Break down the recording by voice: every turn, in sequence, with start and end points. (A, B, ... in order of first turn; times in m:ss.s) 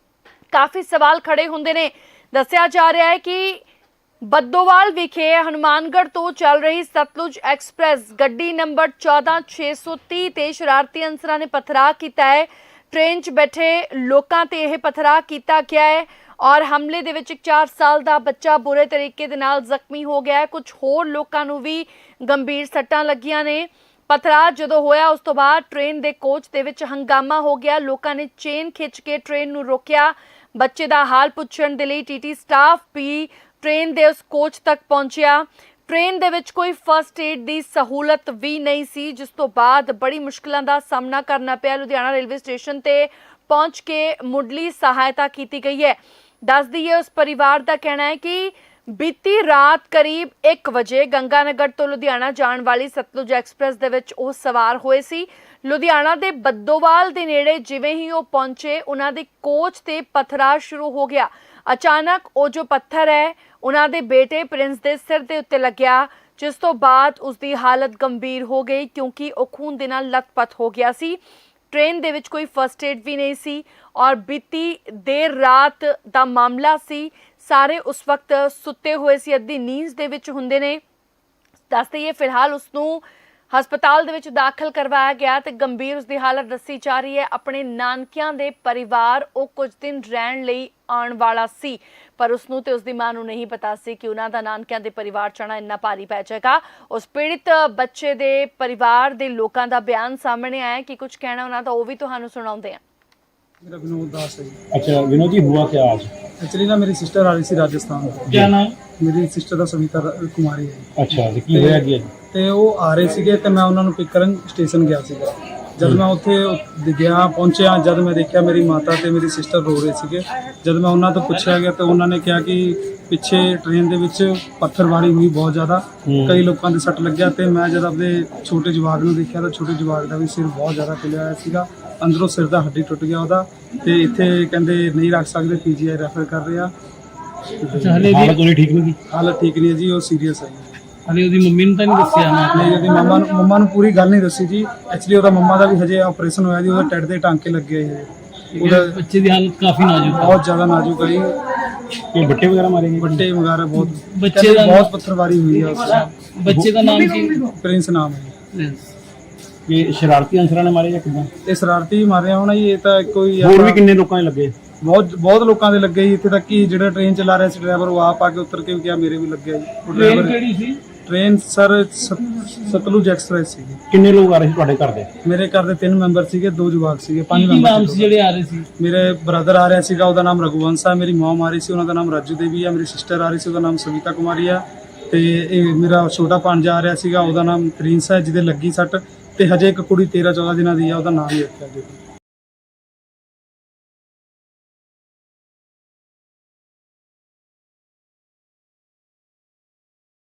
0:00.5-0:03.6 A
0:04.2-1:11.2 A
1:11.7-1:20.8 A
1:21.7-1:42.8 A
1:43.6-1:44.6 B
1:44.8-1:46.1 C
1:46.4-2:16.7 B
1:48.3-1:48.7 D
1:51.0-1:52.0 C
1:51.1-1:51.6 D
2:06.1-2:06.4 C
2:17.6-2:18.1 B
2:17.7-2:19.0 D
2:17.9-2:18.9 C
2:19.1-2:20.8 B
2:21.1-2:22.8 D
2:22.5-2:29.0 B
2:28.6-2:30.4 D
2:30.1-2:31.3 B
2:32.1-2:33.1 D
2:32.2-2:33.2 C
2:33.0-2:36.2 B
2:33.8-2:34.9 D
2:36.0-2:37.5 D
2:36.5-2:36.9 C
2:37.6-2:38.3 B
2:38.5-2:38.9 D
2:39.7-2:41.3 C
2:41.4-2:43.8 B
2:43.4-2:44.5 C
2:44.8-2:50.4 B
2:49.9-2:50.8 D
2:51.0-2:53.8 B
2:53.9-2:55.1 C
2:55.2-2:58.2 B
2:57.3-2:58.7 D
2:58.8-3:12.0 B